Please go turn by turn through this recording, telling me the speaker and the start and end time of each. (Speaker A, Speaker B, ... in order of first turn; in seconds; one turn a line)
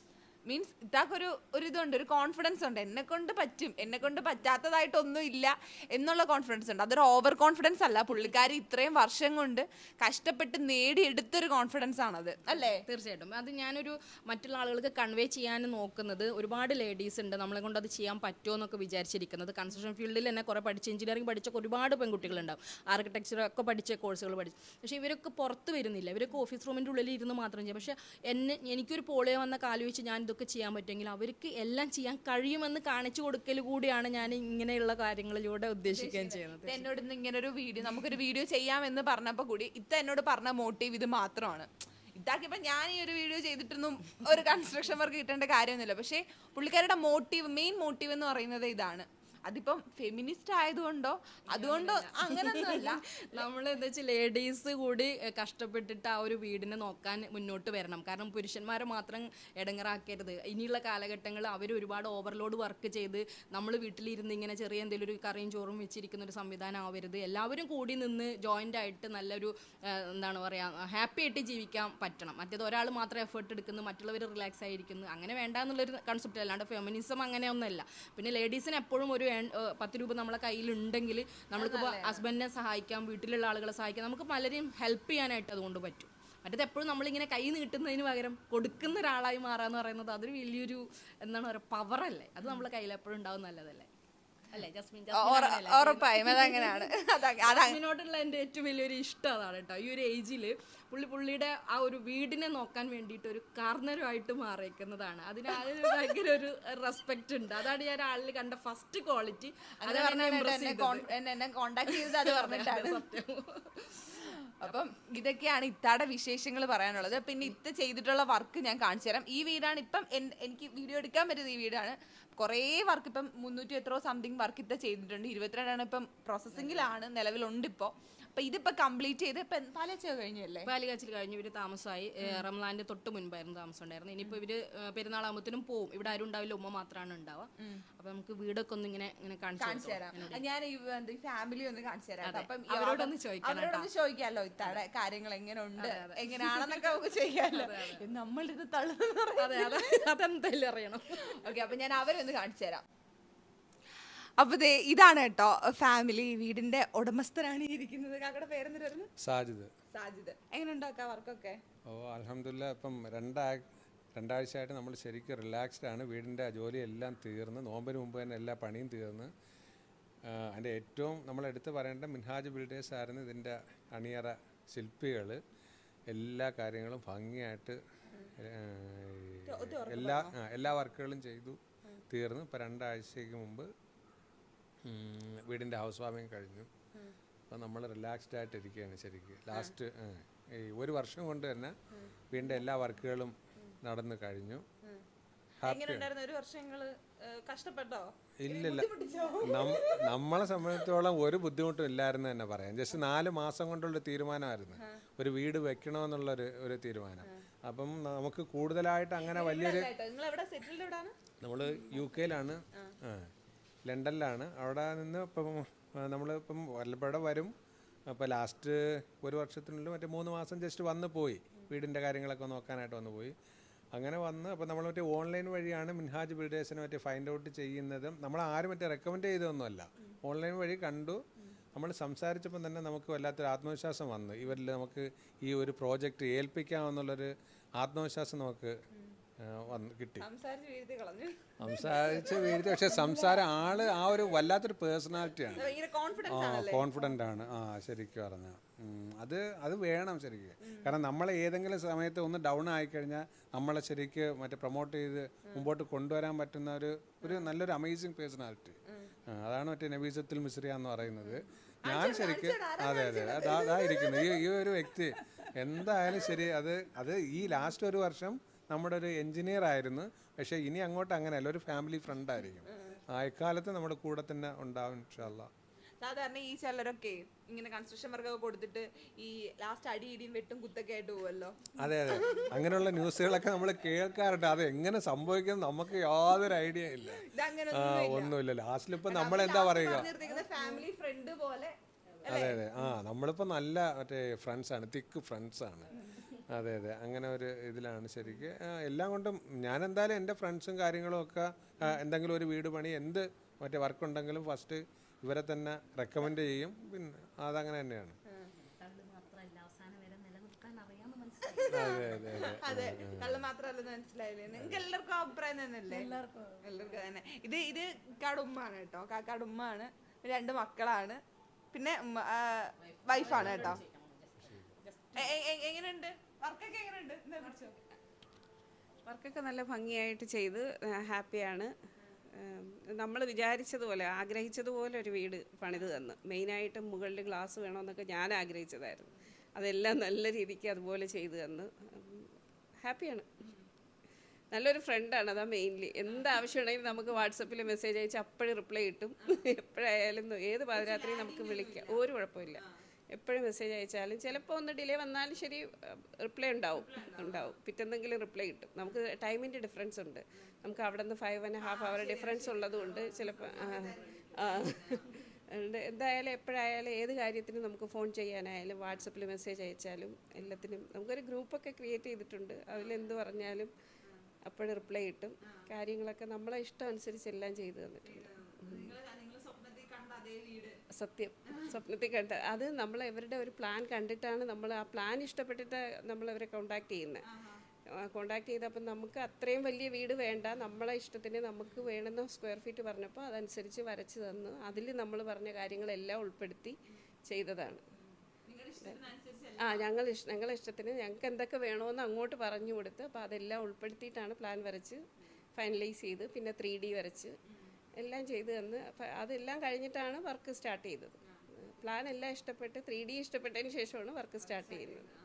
Speaker A: 0.5-12.8
Speaker B: 12.8-36.9
Speaker A: 35.9-53.5
Speaker B: 51.5-93.9
Speaker A: 81.6-82.2
Speaker B: 94.5-96.9
Speaker A: 95.1-97.8
Speaker B: 97.4-111.1
Speaker A: 109.8-113.0
Speaker B: 111.9-114.3
Speaker A: 114.2-130.7
Speaker B: 130.6-140.4
Speaker A: 139.6-150.1
Speaker B: 142.2-143.9
Speaker B: 145.8-148.0
Speaker B: 149.4-151.4
Speaker A: 151.1-152.8
Speaker A: 154.4-159.1
Speaker C: 159.2-159.7
Speaker A: 159.9-161.6
Speaker C: 161.8-169.3
Speaker C: 170.2-175.4
Speaker C: 176.1-177.8
Speaker C: 178.3-181.6
Speaker A: 179.4-180.3
Speaker C: 182.1-183.7
Speaker C: 184.8-186.7
Speaker C: 187.5-191.8
Speaker C: 192.3-194.6
Speaker C: 195.6-196.1
Speaker A: 195.6-200.2
Speaker C: 198.4-198.9
Speaker C: 199.4-209.9
Speaker A: 209.2-211.1
Speaker C: 211.4-213.3
Speaker C: 213.8-217.5
Speaker C: 218.1-223.3
Speaker C: 223.9-231.2
Speaker C: 231.7-238.8
Speaker C: 239.4-240.2
Speaker A: 240.2-243.4
Speaker C: 241.6-245.7
Speaker A: 245.5-247.1
Speaker C: 246.3-275.5
Speaker A: 261.8-265.5
Speaker A: 276.0-282.5
Speaker C: 281.8-290.1
Speaker A: 287.2-288.3
Speaker A: 289.0-292.8
Speaker C: 292.2-308.2
Speaker B: 308.8-312.2
Speaker A: 311.5-316.1
Speaker C: 311.7-313.4
Speaker B: 315.9-316.6
Speaker A: 316.6-321.2
Speaker A: 321.7-323.8
Speaker B: 322.8-325.3
Speaker A: 325.1-327.9
Speaker D: 329.1-331.7
Speaker D: 332.3-342.3
Speaker D: 342.8-343.3
Speaker D: 344.5-373.7
Speaker A: 350.8-352.0
Speaker A: 356.9-357.5
Speaker A: 361.6-365.1
Speaker D: 374.4-378.9
Speaker A: 378.1-380.8
Speaker D: 380.9-387.2
Speaker A: 387.3-387.6
Speaker D: 387.9-397.8
Speaker A: 398.4-399.9
Speaker D: 399.6-405.0
Speaker D: 405.6-407.4
Speaker D: 408.0-415.1